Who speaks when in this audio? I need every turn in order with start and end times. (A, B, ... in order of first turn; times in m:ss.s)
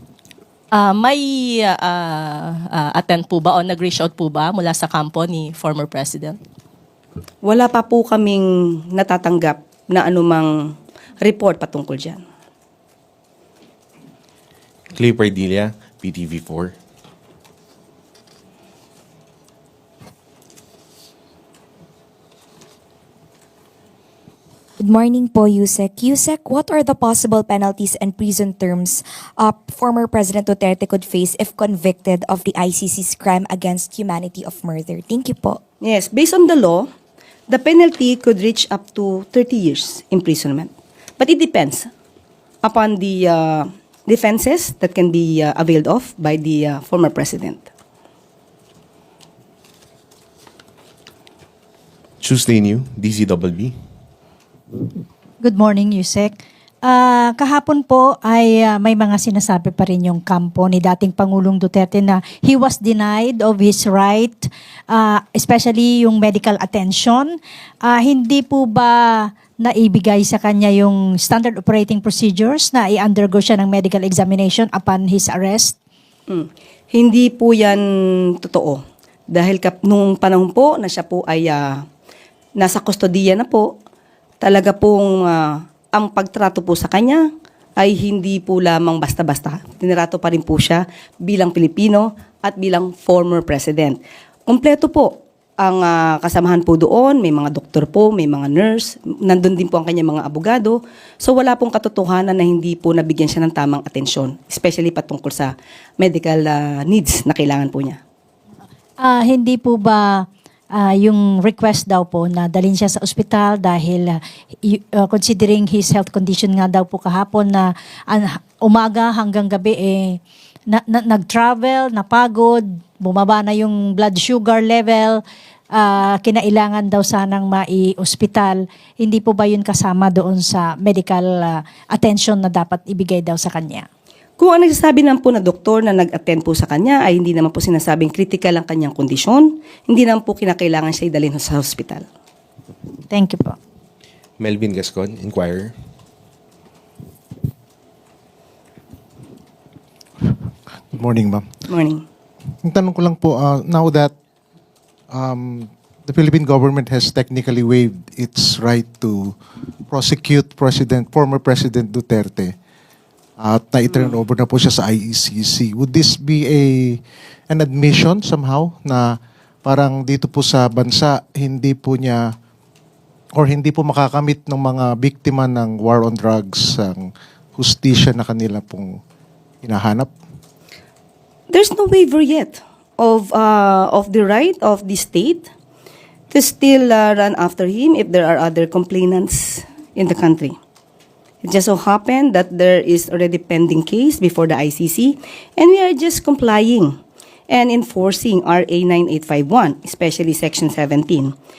0:00.8-0:06.4 A
0:07.4-0:10.5 B
0:11.2-0:12.2 B
0:14.9-0:16.7 C
0:24.8-0:35.6 D
0:35.8-0:36.9 B
0:37.5-0:41.9 B
0:42.6-0:47.7 B
0:52.2-0:53.7 C
0:55.4-1:15.8 E
1:16.3-1:17.8 B
1:18.4-1:21.8 B
1:22.6-1:23.7 B
1:24.4-1:27.3 B
1:27.8-1:48.0 B
1:49.0-2:13.9 E
2:14.4-2:22.1 B
2:23.1-2:23.6 E
2:24.4-2:25.7 C
2:30.9-2:31.4 F
2:31.7-2:32.0 B
2:32.6-2:34.1 F
2:35.1-2:39.4 F
2:39.9-2:42.5 F
2:43.4-2:52.3 F
2:53.3-2:59.0 F
2:59.6-3:00.1 F
3:01.5-3:05.5 B
3:06.3-3:10.6 B
3:11.4-3:17.0 B
3:17.5-3:21.4 B